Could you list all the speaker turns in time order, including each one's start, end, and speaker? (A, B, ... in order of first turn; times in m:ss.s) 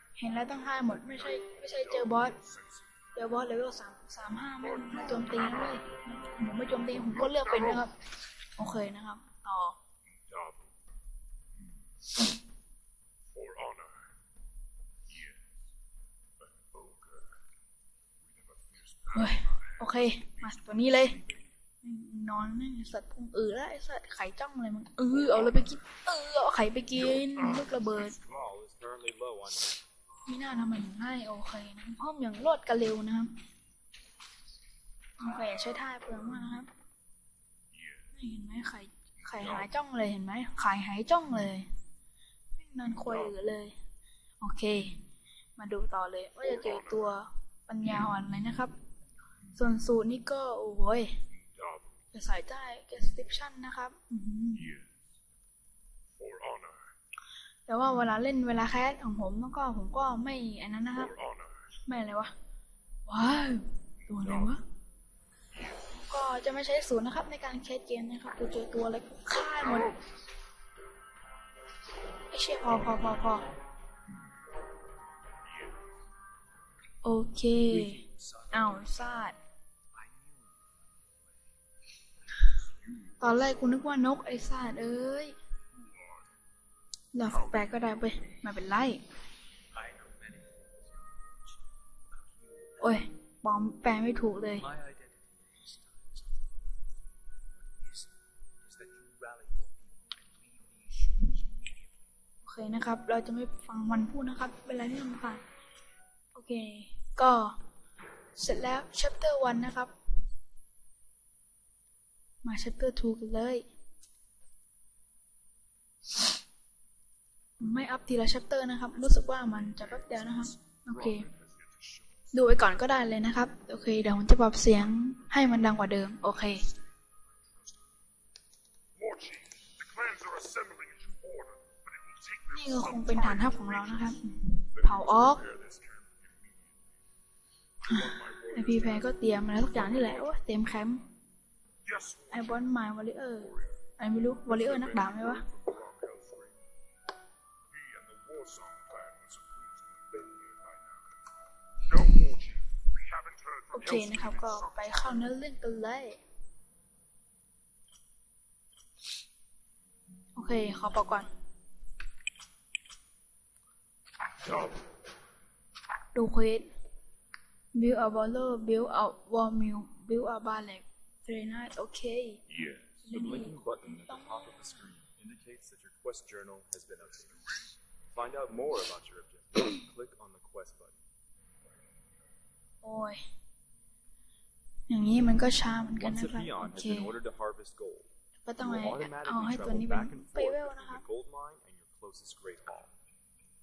0:00.2-0:02.3 A
0:01.1-0:02.8 B
0:03.1-0:07.9 A
0:04.6-0:05.8 B
0:07.1-0:07.8 B
0:08.6-0:09.8 A
0:10.1-0:10.7 B
0:13.3-0:14.1 B
0:15.1-0:15.5 B
0:16.5-0:17.3 B
0:18.3-0:21.5 B
0:19.1-0:21.2 A
0:21.8-0:28.2 A
0:27.1-0:28.5 B
0:28.2-0:29.8 C
0:30.2-0:33.3 A
0:35.2-0:36.7 A
0:37.7-0:38.1 B
0:38.1-0:41.7 A
0:42.5-0:43.8 A
0:44.4-0:45.0 A
0:45.6-0:48.7 A
0:46.4-0:47.0 B
0:49.5-0:51.2 A
0:51.4-0:52.0 B
0:52.1-0:54.7 A
0:54.6-0:55.0 B
0:56.2-0:56.9 B
0:57.7-1:01.1 A
1:01.0-1:01.6 B
1:01.8-1:02.3 A
1:03.0-1:04.6 A
1:04.2-1:04.5 B
1:05.9-1:10.0 A
1:09.6-1:10.0 B
1:12.3-1:13.5 A
1:15.5-1:15.7 B
1:17.0-1:19.4 A
1:17.7-1:18.8 D
1:19.9-1:20.7 D
1:22.7-1:23.5 B
1:23.2-1:25.4 A
1:25.7-1:26.2 B
1:27.1-1:29.0 A
1:27.3-1:27.8 B
1:29.7-1:31.6 D
1:32.1-1:33.0 D
1:32.8-1:34.7 A
1:34.6-1:36.2 D
1:37.8-1:38.1 D
1:38.6-1:41.9 D
1:42.4-1:45.4 A
1:46.3-1:47.6 A
1:48.4-1:49.9 A
1:52.4-1:53.6 A
1:57.6-2:01.3 A
1:59.4-2:02.3 B
2:02.3-2:06.6 A
2:09.0-2:14.2 B
2:12.5-2:15.4 A
2:14.7-2:16.7 B
2:17.8-2:20.4 B
2:17.9-2:21.0 A
2:21.8-2:22.6 B
2:22.3-2:25.4 A
2:23.4-2:23.7 B
2:24.5-2:26.6 B
2:27.7-2:31.0 B
2:31.9-2:35.0 B
2:33.7-2:36.2 A
2:40.3-2:41.3 A
2:46.1-2:46.7 A
2:47.7-2:52.4 A
2:52.5-2:52.9 B
2:53.0-3:01.0 C
2:53.0-2:54.9 A
3:02.8-3:03.2 A
3:04.9-3:07.2 A
3:06.0-3:12.9 C
3:08.4-3:11.0 A